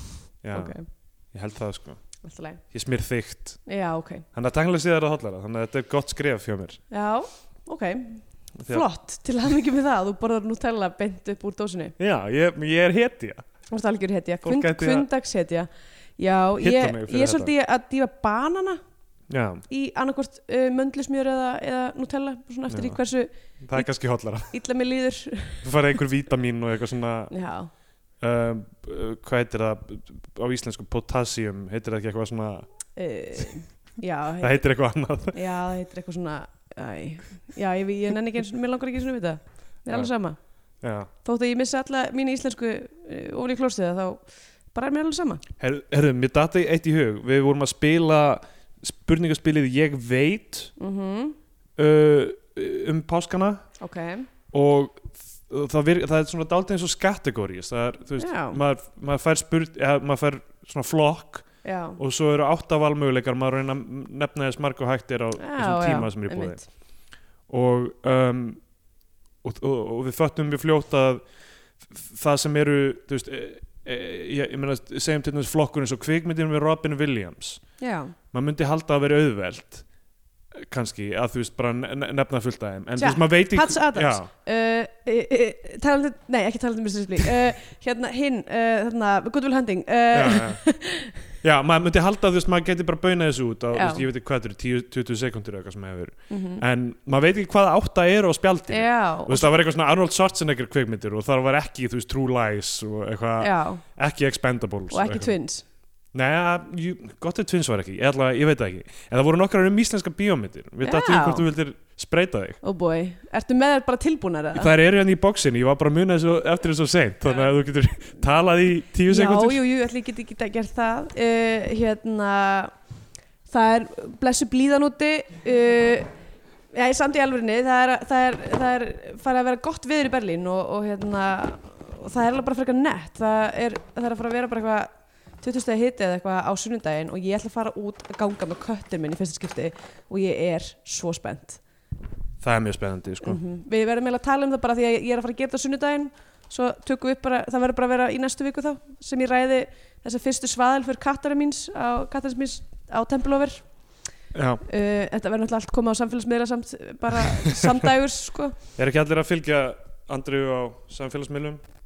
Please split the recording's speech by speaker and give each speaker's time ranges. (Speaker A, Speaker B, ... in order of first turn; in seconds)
Speaker A: 0.4-0.8, 1.3-2.0, 2.7-3.6, 4.3-6.8, 8.6-8.8, 12.0-13.4, 14.4-15.1, 16.6-17.5, 19.3-19.6, 22.7-23.0, 23.6-24.5, 25.6-27.3, 28.2-32.7, 34.4-35.4, 40.8-41.1, 45.6-50.7, 51.8-53.6, 54.5-66.6, 67.5-68.6, 69.4-71.2, 71.9-77.6, 78.3-79.8, 80.5-84.3, 90.1-90.6, 91.4-105.3, 106.1-112.6, 114.5-119.6, 142.4-143.4, 154.3-154.6, 158.8-161.6
Speaker B: 0.5-0.9, 2.2-2.6, 3.7-4.2, 6.9-11.9, 13.7-18.8, 19.7-23.9, 24.4-25.7, 27.3-27.7, 33.0-34.6, 35.3-40.4, 41.2-45.4, 50.8-51.4, 53.8-54.3, 58.2-58.6, 61.6-62.0, 65.4-66.6, 77.8-78.1, 83.0-91.2, 93.7-94.1, 96.3-96.6, 98.7-99.5, 103.4-103.8, 104.9-105.6, 110.8-111.5, 112.6-114.7, 119.1-122.7, 123.5-126.1, 126.7-141.6, 143.2-153.7, 154.6-158.5